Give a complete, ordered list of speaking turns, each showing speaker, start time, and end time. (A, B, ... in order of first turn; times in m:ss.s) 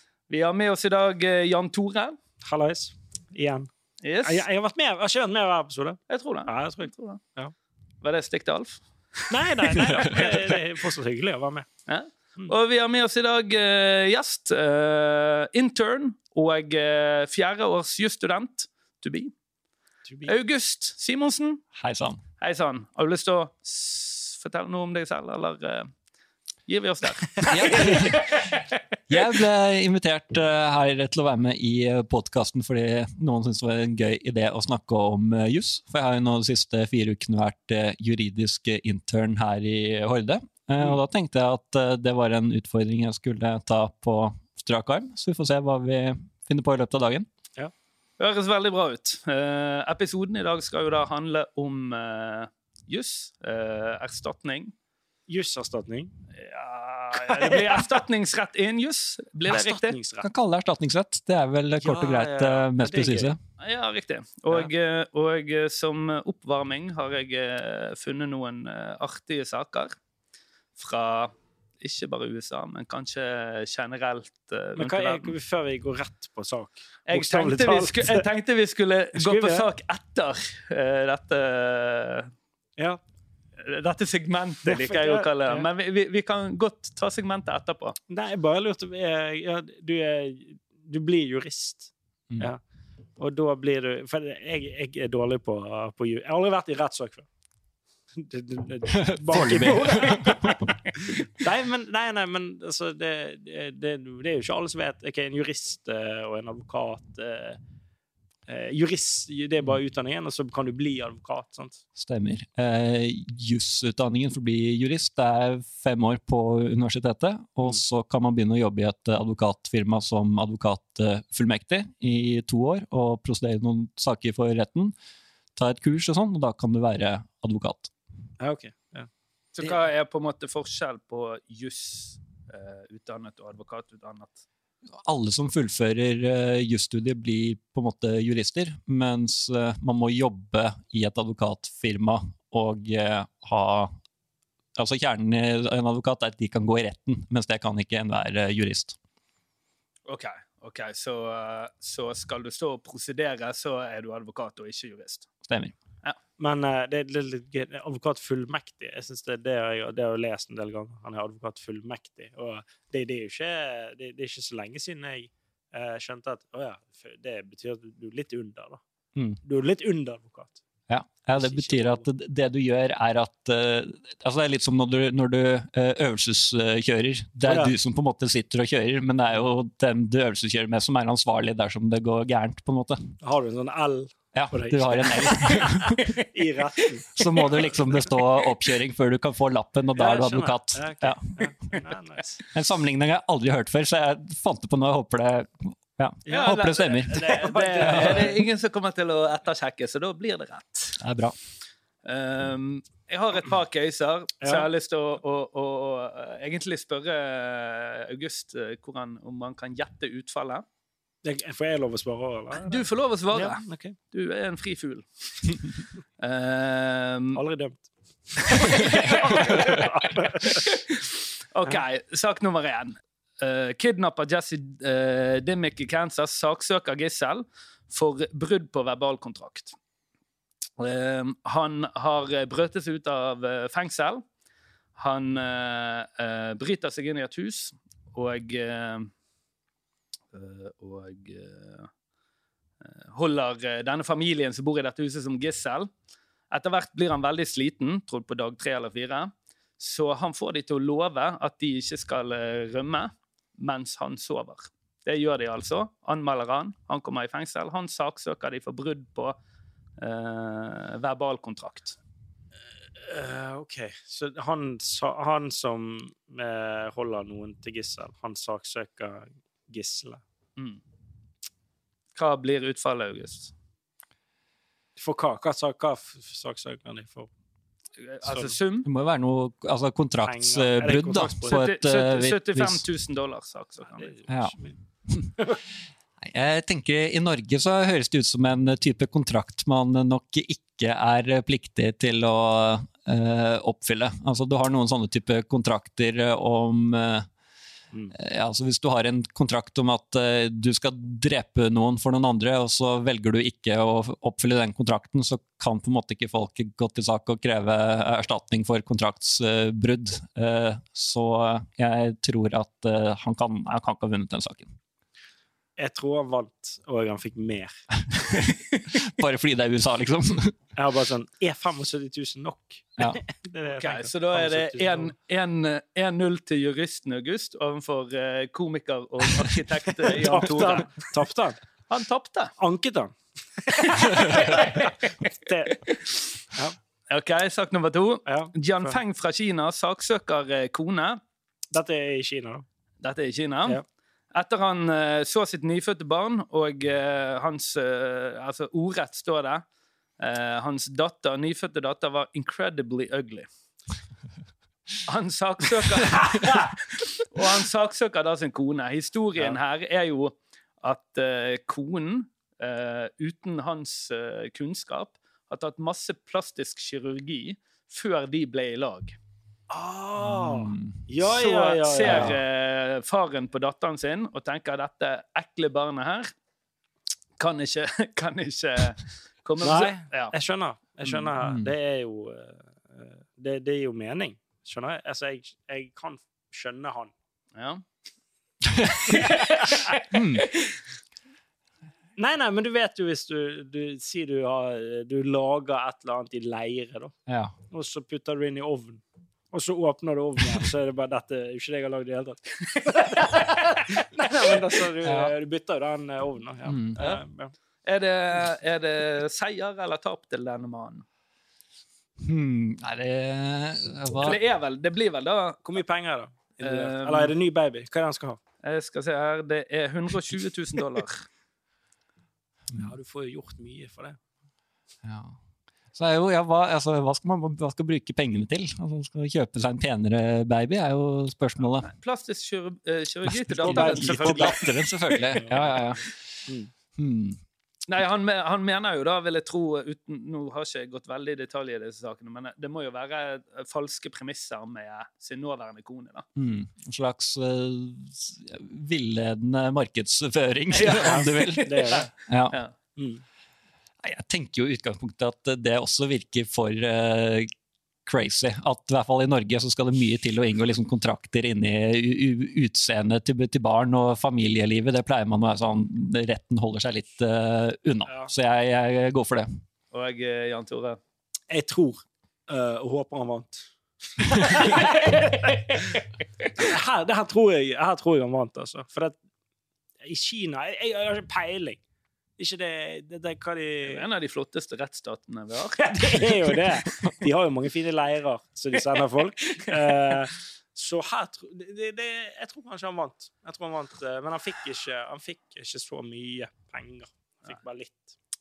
0:00.3-0:02.2 A
0:02.4-0:03.7 B
0:04.0-0:04.5 A
0:04.2-0:07.5 B
0:06.1-0:07.2 A
0:08.0-0:09.2 A
0:09.3-0:11.7 B
0:09.9-0:10.3 C
0:11.9-0:19.3 A
0:20.1-0:20.3 B
0:20.2-0:21.6 A
0:21.8-0:22.2 C
0:22.4-0:25.9 A
0:26.7-0:28.6 A
0:27.5-0:28.4 C
0:29.1-0:47.3 C
0:48.2-0:54.7 A
0:55.3-0:56.1 B
0:56.4-1:00.0 A
0:57.1-0:58.0 B
0:59.5-1:00.3 B
1:00.2-1:03.4 C
1:01.8-1:03.3 B
1:03.6-1:10.0 A
1:10.8-1:15.3 A
1:14.8-1:18.3 B
1:17.1-1:22.3 A
1:19.2-1:19.7 B
1:23.6-1:28.0 A
1:24.7-1:25.7 B
1:28.1-1:32.6 B
1:33.2-1:37.3 B
1:38.2-1:47.6 B
1:38.9-1:40.8 C
1:48.5-1:51.8 B
1:52.0-2:04.9 C
2:05.6-2:07.9 C
2:08.4-2:09.1 B
2:09.6-2:14.4 A
2:14.9-2:23.9 C
2:24.8-2:29.0 C
2:30.1-2:35.3 A
2:35.5-2:35.8 C
2:36.4-2:48.8 B
2:49.4-2:50.6 B
2:50.9-3:03.1 C
2:51.3-2:52.0 B
2:57.4-2:57.7 B
3:03.2-3:07.8 B
3:04.3-3:06.0 C
3:07.2-3:11.4 C
3:10.0-3:12.4 B
3:12.5-3:17.3 C
3:16.3-3:21.0 A
3:17.1-3:18.4 B
3:17.8-3:18.3 C
3:21.0-3:21.4 C
3:22.0-3:30.6 A
3:24.4-3:24.7 B
3:31.2-3:34.0 B
3:32.5-3:37.4 A
3:37.3-3:40.7 B
3:38.6-3:39.8 A
3:40.4-3:49.8 A
3:50.8-3:54.2 A
3:55.0-3:59.1 A
4:00.3-4:01.9 A
4:02.8-4:05.9 A
4:06.5-4:19.4 A
4:20.0-4:22.0 A
4:23.0-4:30.2 B
4:32.2-4:33.5 A
4:35.0-4:37.3 B
4:38.0-4:38.9 A
4:38.8-4:42.8 C
4:40.2-4:41.6 B
4:41.5-4:44.2 A
4:44.0-4:45.6 B
4:44.3-4:44.5 C
4:46.2-4:57.3 C
4:58.1-5:14.7 C
5:15.8-5:17.8 B
5:18.1-5:20.6 C
5:20.8-5:25.1 B
5:23.7-5:31.1 A
5:30.1-5:31.6 B
5:31.9-5:32.5 A
5:32.6-5:35.8 B
5:33.8-5:34.9 A
5:35.7-5:36.3 A
5:37.1-5:41.2 A
5:38.3-5:39.0 B
5:41.7-5:42.6 B
5:43.0-5:43.8 A
5:44.3-5:49.6 A
5:50.2-5:53.5 A
5:55.0-6:09.2 A
6:09.7-6:12.4 B
6:10.2-6:11.0 C
6:11.2-6:16.3 A
6:12.1-6:12.3 C
6:17.4-6:20.3 A
6:19.6-6:27.1 B
6:21.4-6:21.7 C
6:27.6-6:27.8 A
6:28.7-6:29.1 C
6:29.1-6:29.7 B
6:29.1-6:30.8 A
6:30.1-6:30.5 C
6:32.2-6:37.2 B
6:37.3-6:37.6 C
6:37.7-6:47.5 B
6:45.0-6:45.3 C
6:46.7-6:47.0 C
6:47.8-6:51.0 A
6:52.2-6:54.4 C
6:54.2-6:55.8 A
6:55.7-6:58.4 B
6:56.6-6:57.3 A
6:58.6-7:01.3 A
7:02.7-7:04.2 B
7:05.0-7:05.4 C
7:05.9-7:11.9 C
7:11.8-7:15.8 A
7:13.3-7:16.1 C
7:13.6-7:14.7 B
7:15.4-7:15.7 B
7:17.0-7:17.4 C
7:17.9-7:26.3 A
7:26.4-7:32.6 C
7:30.7-7:32.7 A
7:30.9-7:32.1 B
7:33.0-7:33.2 B
7:34.0-7:37.5 C
7:38.0-7:49.5 C
7:49.9-7:51.0 A
7:51.5-7:56.0 B
7:56.6-7:59.2 B
8:00.0-8:01.8 B
8:02.4-8:04.0 B
8:03.8-8:06.5 A
8:05.8-8:18.2 B